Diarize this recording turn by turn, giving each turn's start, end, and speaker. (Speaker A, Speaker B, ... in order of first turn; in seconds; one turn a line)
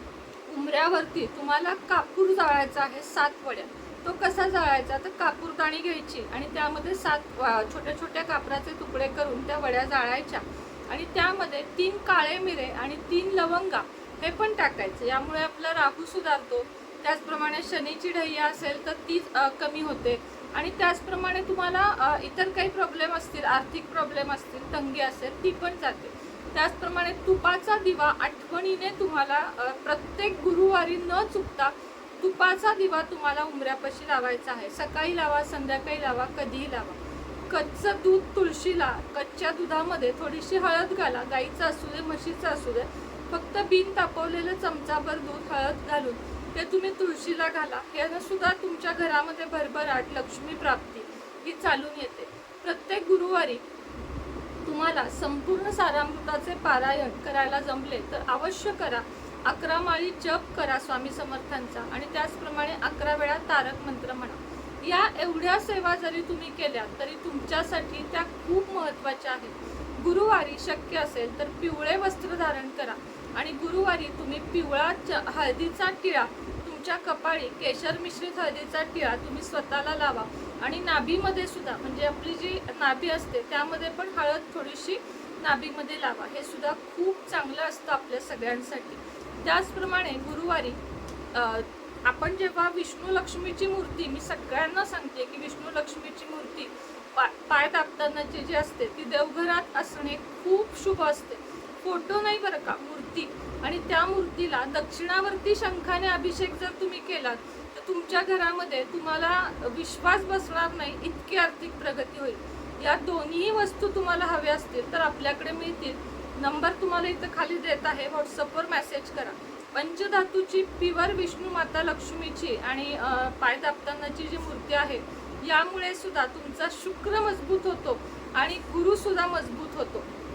Speaker A: 0.5-53.6
Speaker A: 54.6-90.8
Speaker A: 91.3-130.1